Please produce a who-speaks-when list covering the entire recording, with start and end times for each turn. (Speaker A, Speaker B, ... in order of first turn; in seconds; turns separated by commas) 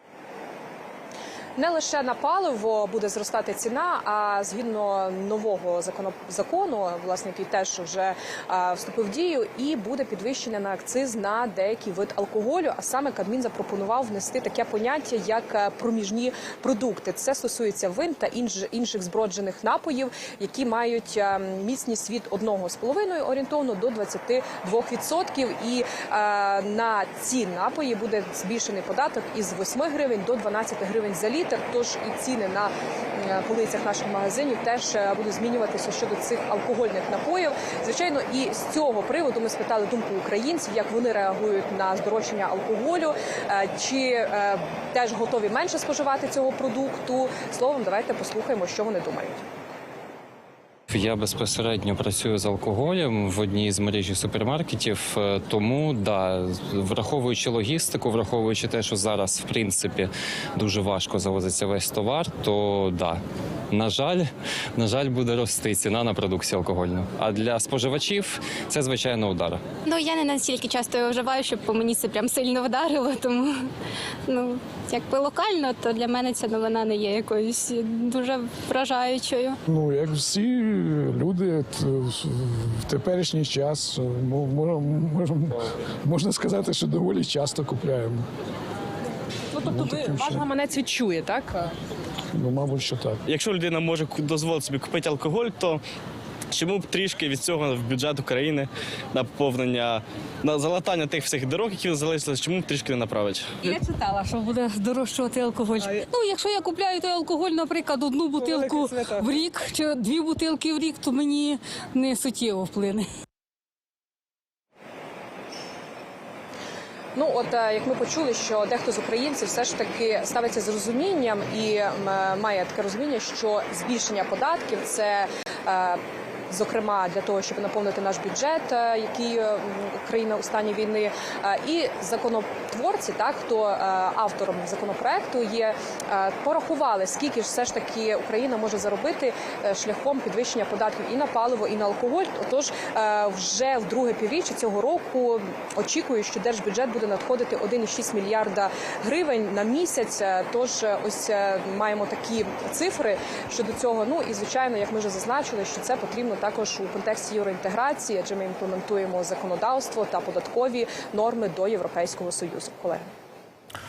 Speaker A: 1.6-49.4, Speaker B: 50.9-63.2, Speaker B: 63.7-69.6, Speaker C: 69.8-73.7, Speaker C: 74.2-79.6, Speaker D: 79.7-88.3, Speaker A: 89.5-91.7, Speaker D: 89.7-90.5, Speaker D: 92.3-93.2, Speaker E: 93.3-95.8, Speaker E: 96.5-103.4, Speaker F: 103.6-113.1, Speaker A: 117.1-163.1